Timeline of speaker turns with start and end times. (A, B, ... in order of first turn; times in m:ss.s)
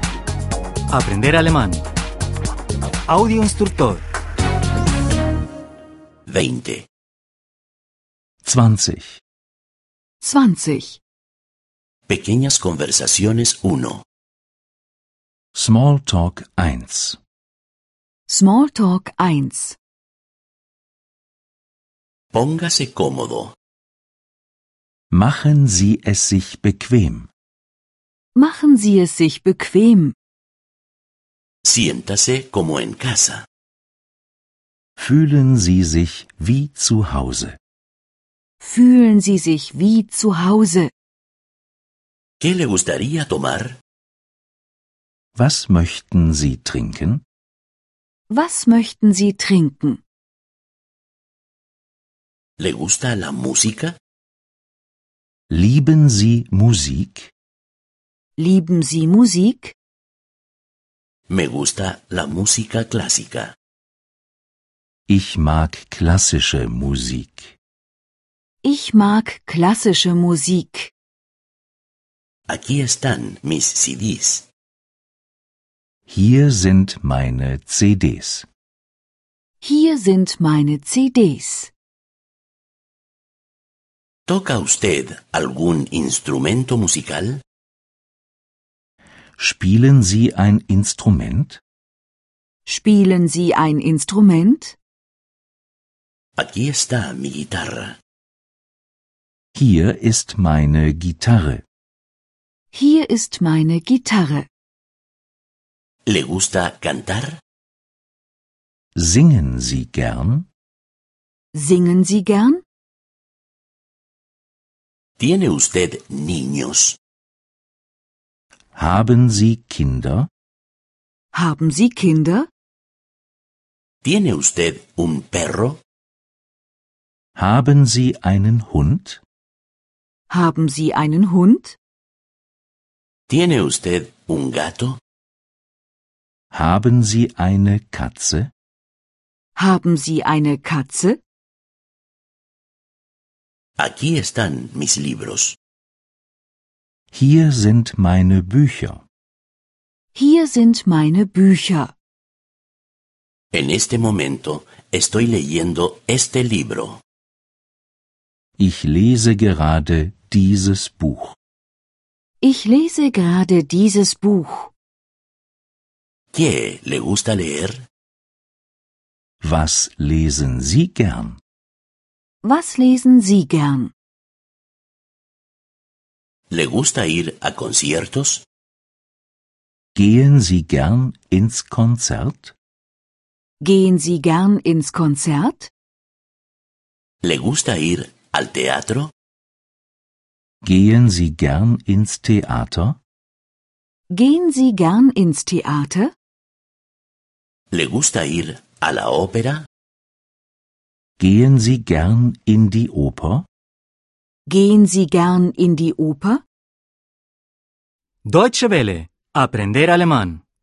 0:00.9-0:01.8 A
0:03.1-0:04.0 A
0:06.2-0:06.9 B
0:08.4-0:09.2 C
0:10.2-0:11.0 D
0:12.1-0:14.0 B
0:15.5-0:17.2 C
0:18.3-0:19.8 D
0:22.3-0:23.5 B
0:25.1-0:27.3 C
0:28.3-0:30.1 D
0:31.6-0:33.4 B
0:35.0-0:37.6 C
0:38.6-0:40.9 D
0:42.4-0:43.8 B
0:45.4-0:47.2 C
0:48.3-0:50.0 D
0:52.6-0:54.0 B
0:55.5-0:57.3 C
0:58.4-0:59.7 D
1:01.3-1:03.5 B
1:05.1-1:07.6 C
1:08.6-1:10.9 D
1:12.5-1:14.4 B
1:16.1-1:18.5 C
1:19.6-1:21.7 D
1:24.3-1:27.4 B
1:29.4-1:31.6 C
1:32.6-1:34.8 D
1:36.4-1:38.0 B
1:39.5-1:41.6 C
1:42.7-1:44.5 D
1:46.1-1:47.4 B
1:48.9-1:50.5 C
1:51.5-1:52.6 D
1:55.2-1:57.0 B
1:58.7-2:00.3 C
2:01.3-2:02.5 D
2:04.0-2:05.8 B
2:07.4-2:09.2 C
2:10.3-2:11.8 D
2:13.3-2:15.0 B
2:16.5-2:18.5 C
2:19.6-2:21.2 D
2:23.8-2:25.6 B
2:27.1-2:29.0 C
2:30.1-2:31.9 D
2:33.5-2:37.0 B
2:38.6-2:41.4 C
2:42.4-2:44.7 D
2:46.3-2:47.8 B
2:49.4-2:51.4 C
2:52.4-2:53.9 D
2:56.5-2:58.4 B
2:59.9-3:02.6 C
3:03.6-3:05.7 D
3:07.2-3:09.1 B
3:10.6-3:13.0 C
3:14.1-3:16.1 D
3:17.7-3:19.6 B
3:21.2-3:23.5 C
3:24.5-3:26.4 D
3:28.2-3:30.4 A